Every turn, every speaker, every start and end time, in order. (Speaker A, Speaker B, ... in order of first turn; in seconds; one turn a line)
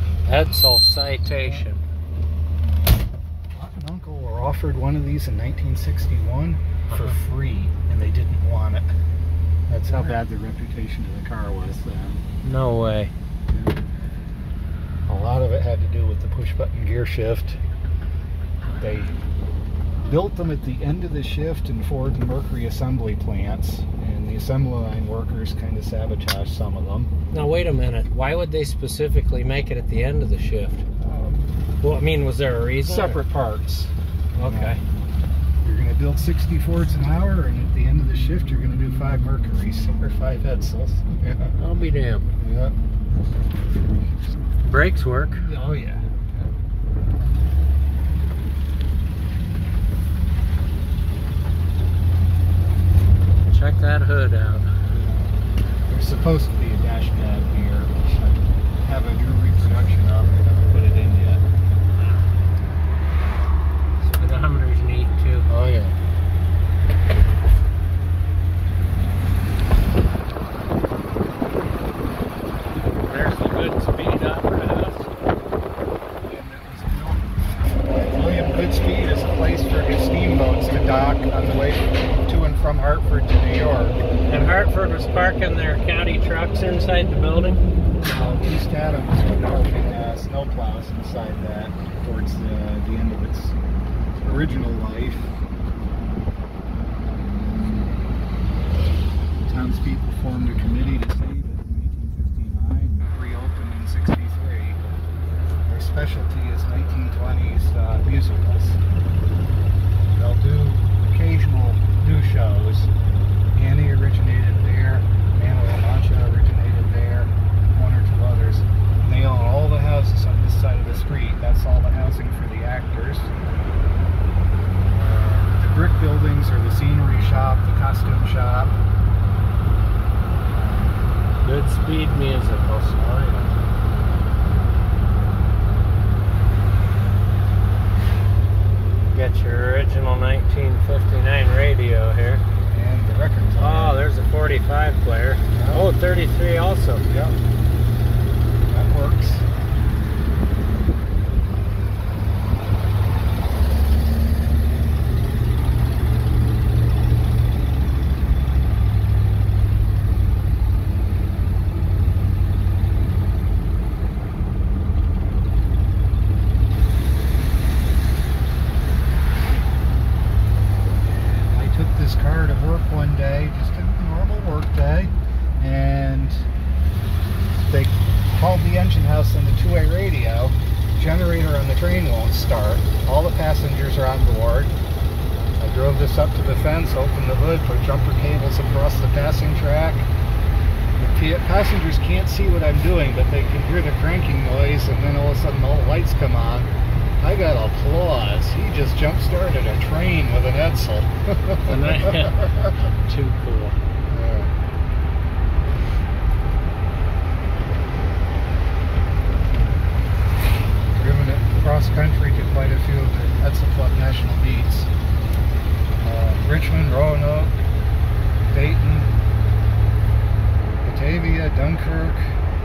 Speaker A: 0.2-1.8
Speaker B: 1.4-1.7
Speaker B: 3.5-8.9
Speaker A: 6.9-7.2
Speaker B: 9.7-12.2
Speaker A: 12.4-13.1
Speaker B: 13.5-13.7
Speaker B: 15.1-17.6
Speaker B: 18.8-19.2
Speaker B: 20.1-27.1
Speaker A: 27.3-30.8
Speaker B: 31.0-31.5
Speaker A: 31.8-33.2
Speaker B: 32.8-34.8
Speaker A: 34.4-34.8
Speaker B: 35.6-41.6
Speaker A: 41.6-42.3
Speaker B: 42.4-42.8
Speaker A: 44.6-45.5
Speaker B: 45.4-46.5
Speaker A: 53.5-54.7
Speaker B: 54.9-61.4
Speaker A: 64.0-65.5
Speaker B: 65.5-65.9
Speaker A: 73.0-75.1
Speaker B: 76.2-84.0
Speaker A: 84.2-87.6
Speaker B: 88.0-93.6
Speaker B: 94.2-95.4
Speaker B: 99.5-104.8
Speaker B: 105.7-108.8
Speaker B: 110.1-112.9
Speaker B: 113.5-123.3
Speaker B: 124.9-128.8
Speaker A: 131.4-133.6
Speaker A: 139.1-142.4
Speaker B: 142.7-144.0
Speaker A: 143.6-147.1
Speaker B: 145.5-145.9
Speaker B: 147.1-147.4
Speaker B: 148.7-149.5
Speaker B: 171.5-176.5
Speaker B: 177.7-184.7
Speaker B: 185.6-190.1
Speaker B: 191.0-196.7
Speaker B: 197.2-202.5
Speaker A: 201.6-203.8
Speaker B: 204.1-204.5
Speaker B: 210.9-214.9
Speaker B: 216.0-217.6
Speaker B: 218.5-219.1
Speaker B: 220.8-222.4